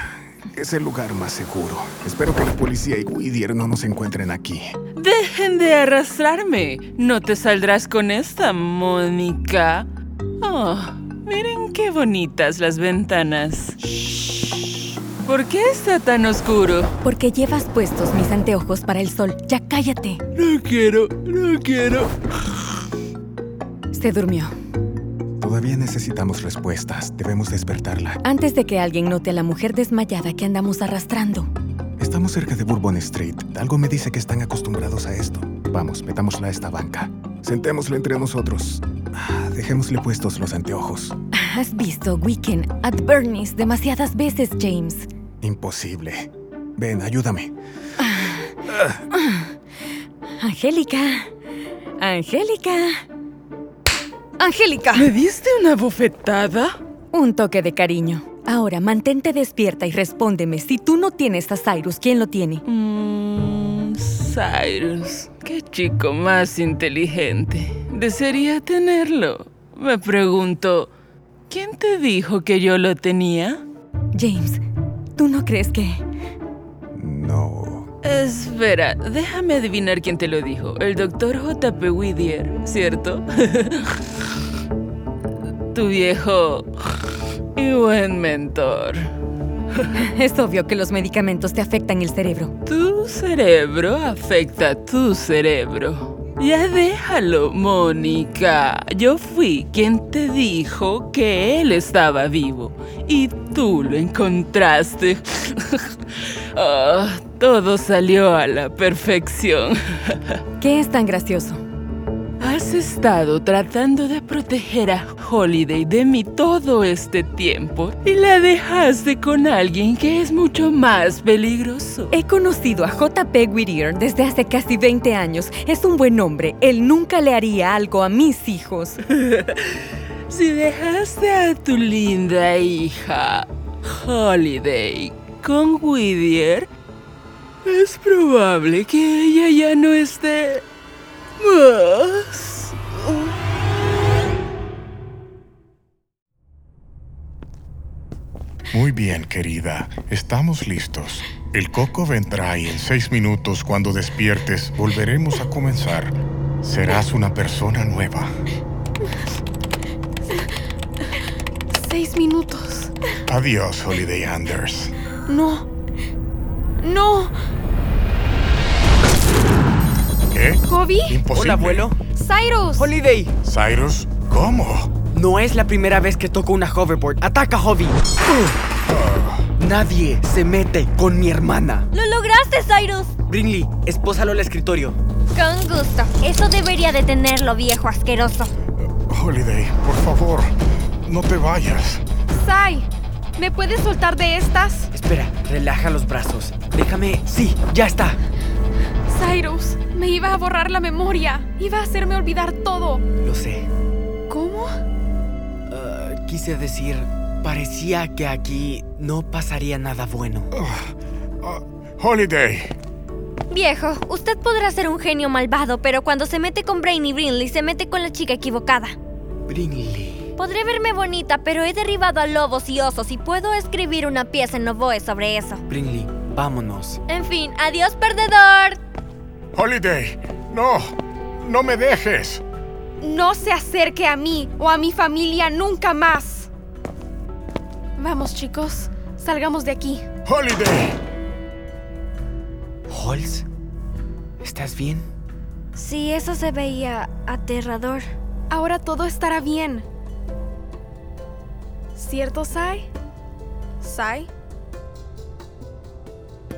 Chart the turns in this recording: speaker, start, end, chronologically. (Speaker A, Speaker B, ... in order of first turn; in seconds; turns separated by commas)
Speaker A: 0.5-4.7, Speaker B: 5.0-9.9, Speaker B: 10.4-14.6, Speaker B: 15.2-16.9, Speaker C: 17.0-20.2, Speaker B: 20.4-22.1, Speaker C: 23.9-24.5, Speaker A: 25.4-28.2, Speaker C: 28.2-31.5, Speaker A: 32.0-41.1, Speaker C: 41.3-45.1, Speaker A: 45.4-47.5, Speaker C: 48.0-48.5, Speaker A: 48.7-49.0, Speaker C: 49.1-49.5, Speaker C: 50.4-51.3, Speaker C: 52.0-53.0, Speaker C: 54.4-55.1, Speaker B: 54.9-56.8, Speaker C: 57.1-62.6, Speaker B: 62.6-70.9, Speaker B: 71.5-73.6, Speaker C: 74.1-74.6, Speaker C: 75.2-76.0, Speaker A: 76.9-77.9, Speaker B: 78.0-84.0, Speaker B: 85.7-86.7, Speaker B: 87.5-89.0, Speaker C: 89.9-92.5, Speaker B: 92.7-105.9, Speaker B: 106.5-110.4, Speaker C: 110.6-111.6, Speaker B: 112.4-122.2, Speaker C: 122.1-129.0, Speaker B: 129.2-129.7, Speaker B: 130.3-136.7, Speaker B: 137.6-140.6, Speaker B: 141.4-143.3, Speaker D: 148.7-158.3, Speaker E: 161.7-162.9, Speaker D: 163.3-164.9, Speaker E: 165.3-165.7, Speaker E: 166.8-167.3, Speaker D: 170.3-171.9, Speaker E: 170.7-171.2, Speaker F: 171.3-172.0, Speaker E: 172.1-172.9, Speaker F: 172.8-173.3, Speaker D: 173.4-174.9, Speaker F: 175.1-178.0, Speaker D: 178.9-179.4, Speaker F: 179.6-181.9, Speaker G: 181.9-183.1, Speaker F: 183.3-185.0, Speaker G: 185.3-188.5, Speaker D: 189.1-190.5, Speaker D: 191.1-192.0, Speaker E: 192.3-194.9, Speaker F: 194.9-198.2, Speaker E: 199.1-203.0, Speaker F: 203.2-203.7, Speaker E: 204.3-204.7, Speaker F: 205.7-210.5, Speaker D: 210.5-210.9, Speaker D: 211.4-212.7, Speaker G: 213.5-218.9, Speaker F: 219.5-220.3, Speaker G: 220.4-225.6, Speaker F: 225.7-227.0, Speaker G: 227.1-228.8, Speaker D: 229.6-232.4, Speaker E: 233.0-236.5, Speaker E: 238.0-240.0, Speaker D: 240.3-241.0, Speaker F: 242.9-243.4, Speaker F: 244.4-245.1, Speaker G: 245.8-248.1, Speaker E: 248.5-249.8, Speaker E: 251.9-252.9, Speaker E: 253.8-254.3